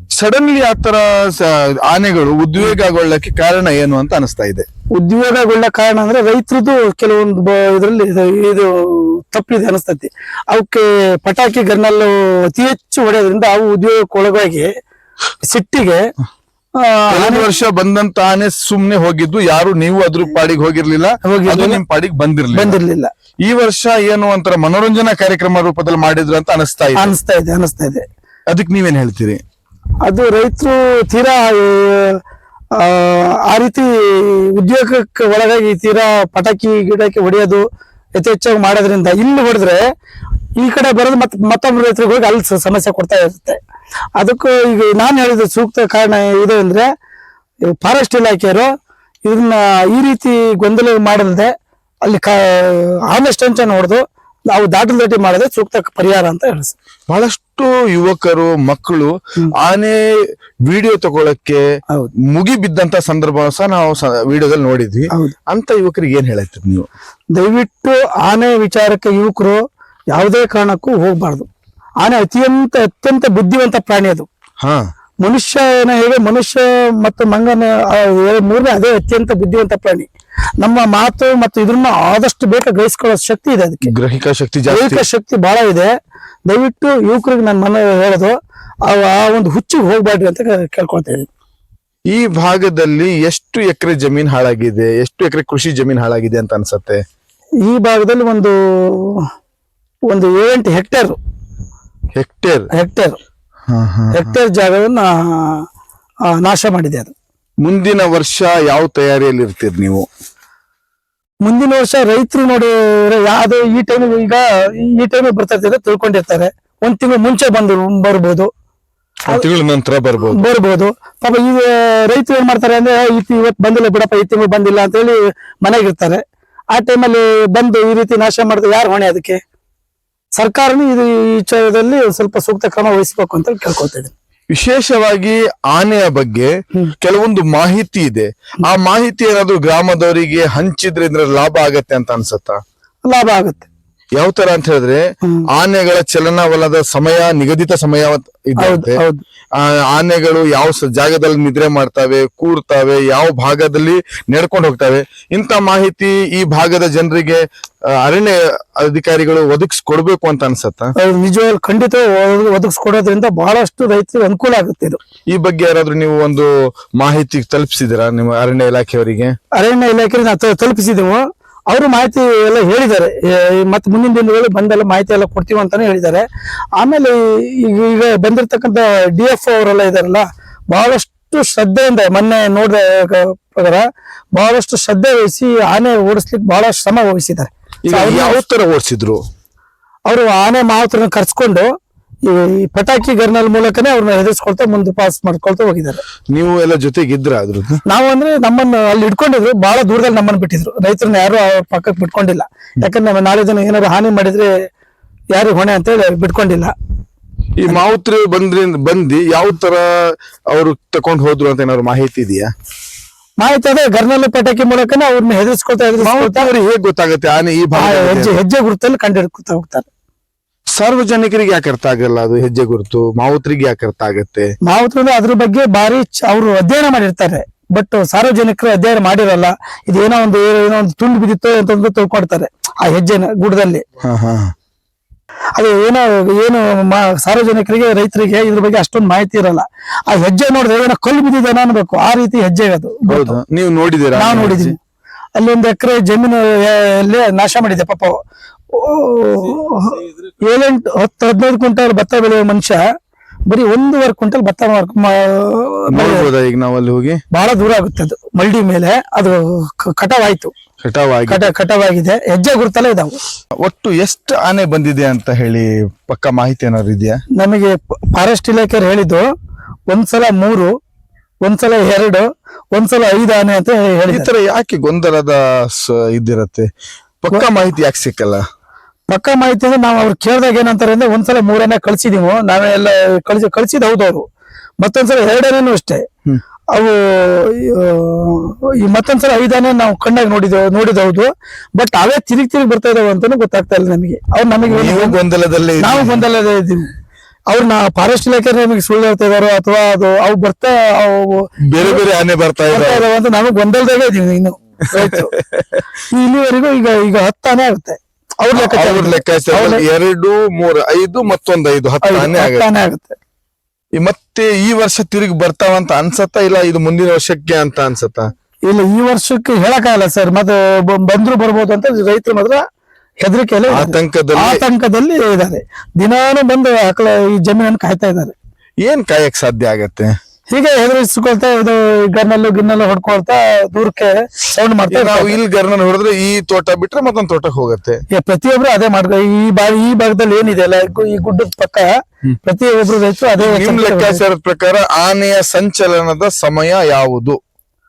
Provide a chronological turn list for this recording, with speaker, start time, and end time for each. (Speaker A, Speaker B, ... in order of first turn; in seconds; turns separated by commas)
Speaker A: 0.1-4.7, Speaker B: 5.0-14.7, Speaker B: 15.5-16.0, Speaker B: 16.8-17.5, Speaker A: 17.1-22.8, Speaker B: 21.2-21.8, Speaker B: 22.5-23.1, Speaker A: 23.4-27.2, Speaker B: 27.0-28.0, Speaker A: 28.5-29.4, Speaker B: 30.1-32.2, Speaker B: 32.8-37.6, Speaker B: 38.2-39.8, Speaker B: 40.6-43.6, Speaker B: 44.2-46.9, Speaker B: 47.8-48.7, Speaker B: 49.2-51.5, Speaker B: 52.0-54.0, Speaker B: 54.5-56.8, Speaker A: 57.1-60.0, Speaker A: 60.7-61.6, Speaker A: 62.3-66.9, Speaker B: 67.3-69.6, Speaker B: 70.1-71.5, Speaker B: 72.0-74.3, Speaker B: 75.2-80.1, Speaker B: 80.6-83.9, Speaker A: 83.8-85.0, Speaker B: 84.7-85.9, Speaker B: 86.5-88.3, Speaker B: 88.9-91.3, Speaker A: 92.1-97.0, Speaker B: 97.7-99.2, Speaker B: 100.1-101.2, Speaker A: 102.2-102.7, Speaker B: 102.7-103.2, Speaker A: 103.7-104.3, Speaker B: 104.1-105.7, Speaker B: 106.4-107.1, Speaker A: 107.6-110.1, Speaker B: 111.5-118.5, Speaker A: 119.3-120.4, Speaker B: 120.3-126.2, Speaker B: 126.7-129.4, Speaker B: 130.4-134.1, Speaker A: 134.5-142.6, Speaker B: 143.1-143.7, Speaker A: 144.2-149.0, Speaker B: 148.6-149.2, Speaker A: 149.6-157.4, Speaker A: 157.9-160.9, Speaker B: 161.0-165.0, Speaker A: 165.3-169.3, Speaker B: 169.6-188.4, Speaker A: 187.8-189.2, Speaker B: 190.1-191.7, Speaker B: 192.3-196.0, Speaker A: 196.3-197.8, Speaker B: 197.9-204.5, Speaker B: 205.3-206.7, Speaker A: 207.6-212.5, Speaker B: 213.4-216.5, Speaker A: 216.0-218.4, Speaker B: 217.8-219.9, Speaker A: 220.8-224.5, Speaker B: 224.7-233.8, Speaker A: 234.0-234.5, Speaker B: 235.6-243.4, Speaker A: 243.1-244.7, Speaker B: 244.2-244.8, Speaker B: 245.4-248.1, Speaker B: 248.7-252.8, Speaker B: 253.5-256.3, Speaker A: 255.9-257.2, Speaker B: 257.3-260.5, Speaker A: 260.8-261.5, Speaker B: 261.3-263.2, Speaker A: 263.6-267.2, Speaker B: 267.4-269.2, Speaker B: 269.9-270.7, Speaker B: 271.4-274.3, Speaker A: 274.1-276.7, Speaker A: 277.2-278.4, Speaker B: 279.1-284.2, Speaker B: 284.8-286.1, Speaker B: 286.7-295.2, Speaker A: 294.6-296.2, Speaker B: 295.8-296.9, Speaker B: 297.5-302.0, Speaker A: 301.7-303.1, Speaker B: 302.7-305.3, Speaker A: 305.0-305.8, Speaker B: 306.1-309.8, Speaker A: 308.6-312.6, Speaker B: 312.0-313.2, Speaker A: 314.0-318.3, Speaker B: 318.7-322.6, Speaker B: 323.2-328.3, Speaker A: 323.7-324.6, Speaker A: 328.8-330.1, Speaker B: 330.5-335.4, Speaker A: 334.9-338.0, Speaker B: 338.1-341.9, Speaker B: 342.4-344.2, Speaker A: 343.4-347.4